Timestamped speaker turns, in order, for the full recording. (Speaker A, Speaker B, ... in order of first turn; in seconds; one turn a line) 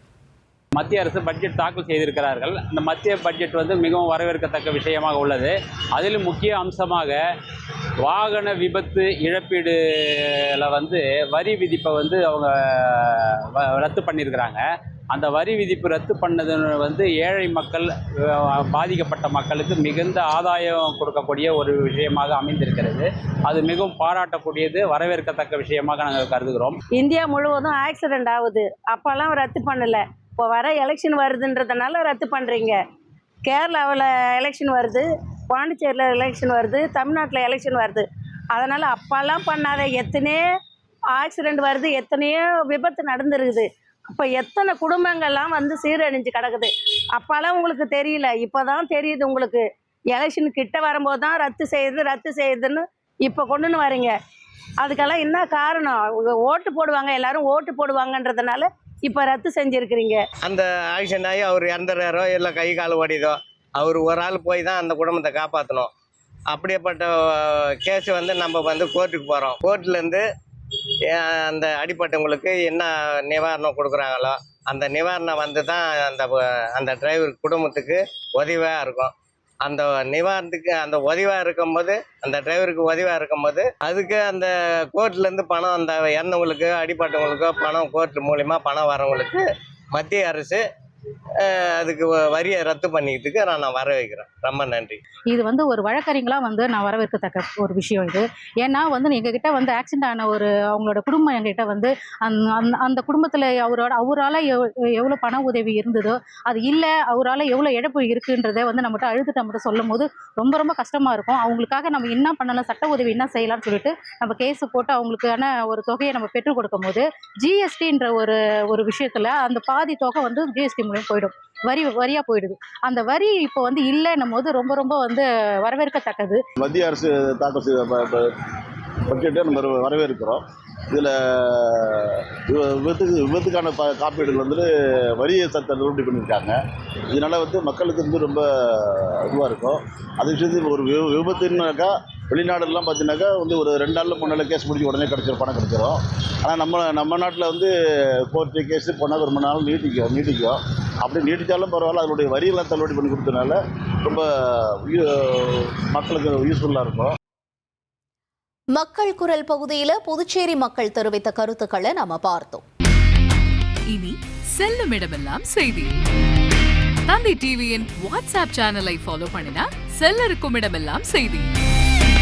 Speaker A: 0.8-7.2
Speaker A: 8.0-9.8
Speaker A: 10.6-26.8
Speaker B: 26.9-32.8
Speaker B: 33.4-40.4
Speaker B: 41.1-54.1
Speaker B: 54.8-60.2
Speaker C: 60.5-65.9
Speaker C: 66.5-70.2
Speaker C: 71.1-90.6
Speaker C: 91.4-95.0
Speaker D: 95.3-126.4
Speaker E: 126.6-128.3
Speaker E: 129.1-136.6
Speaker E: 137.1-147.7
Speaker E: 148.2-157.1
Speaker F: 158.8-162.6
Speaker G: 163.9-166.0
Speaker G: 167.1-171.5